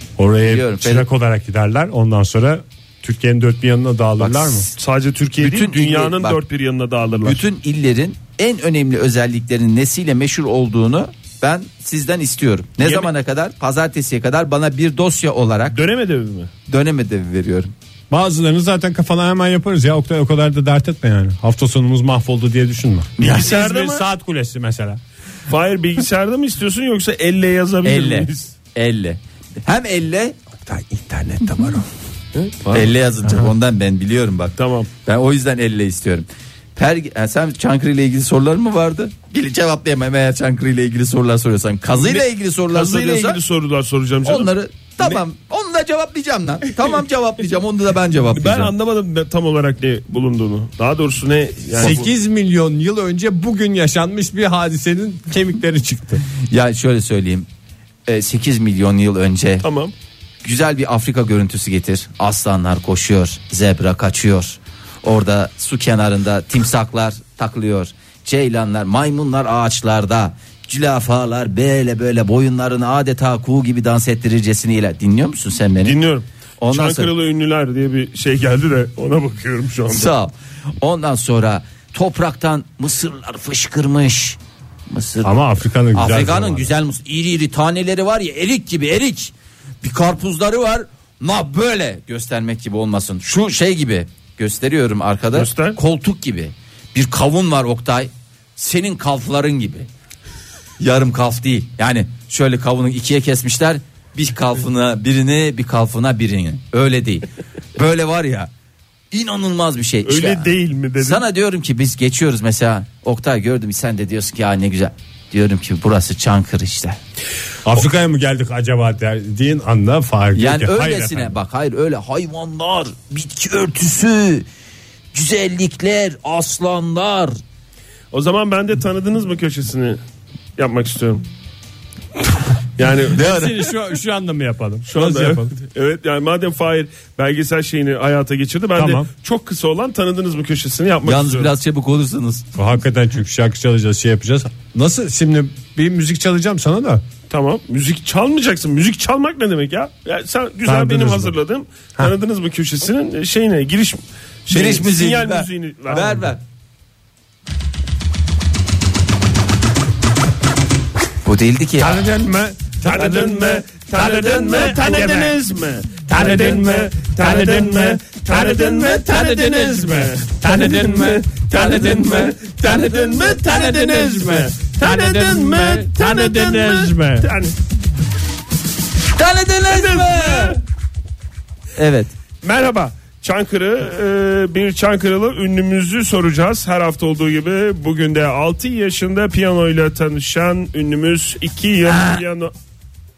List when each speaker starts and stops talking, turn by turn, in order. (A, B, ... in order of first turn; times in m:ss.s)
0:00.2-0:04.7 A
0:00.4-0:01.0 B
0:04.2-0:04.7 B
0:04.8-0:07.4 C
0:05.4-0:06.4 B
0:07.2-0:15.8 B
0:12.8-0:13.1 C
0:15.7-0:16.5 C
0:16.7-0:17.7 B
0:18.1-0:25.0 A
0:23.2-0:23.6 B
0:23.2-0:24.0 C
0:25.5-0:28.5 C
0:27.8-0:30.4 B
0:30.6-0:31.9 A
0:32.3-0:32.9 C
0:32.7-0:43.4 B
0:34.6-0:34.9 C
0:41.9-0:45.2 C
0:44.2-0:48.7 B
0:48.3-0:52.0 C
0:51.8-0:56.2 A
0:56.5-0:57.5 B
0:58.1-0:59.7 B
0:59.6-0:59.9 C
1:00.4-1:16.0 B
1:15.8-1:20.1 C
1:16.6-1:17.1 B
1:19.9-1:24.4 B
1:24.9-1:25.3 B
1:25.2-1:26.7 A
1:25.9-1:39.9 B
1:35.3-1:35.8 C
1:40.8-1:48.5 B
1:49.1-1:57.0 B
1:50.0-1:51.2 C
1:57.6-2:01.4 A
2:00.3-2:04.4 B
2:05.1-2:07.4 B
2:08.1-2:10.0 C
2:10.6-2:11.2 C
2:12.8-2:13.2 C
2:13.1-2:13.7 B
2:13.1-2:15.5 A
2:14.9-2:21.5 C
2:18.8-2:19.1 A
2:21.0-2:22.4 B
2:22.5-2:27.0 A
2:27.3-2:36.3 C
2:30.6-2:31.3 A
2:34.5-2:36.4 B
2:41.2-2:42.0 B
2:41.8-2:45.4 A
2:41.8-2:57.5 C
2:46.1-2:52.0 A
2:51.6-2:52.4 B
2:52.6-2:57.3 A
2:59.1-3:00.6 B
2:59.7-3:00.6 C
3:01.8-3:02.1 B
3:02.4-3:12.5 C
3:11.9-3:12.2 B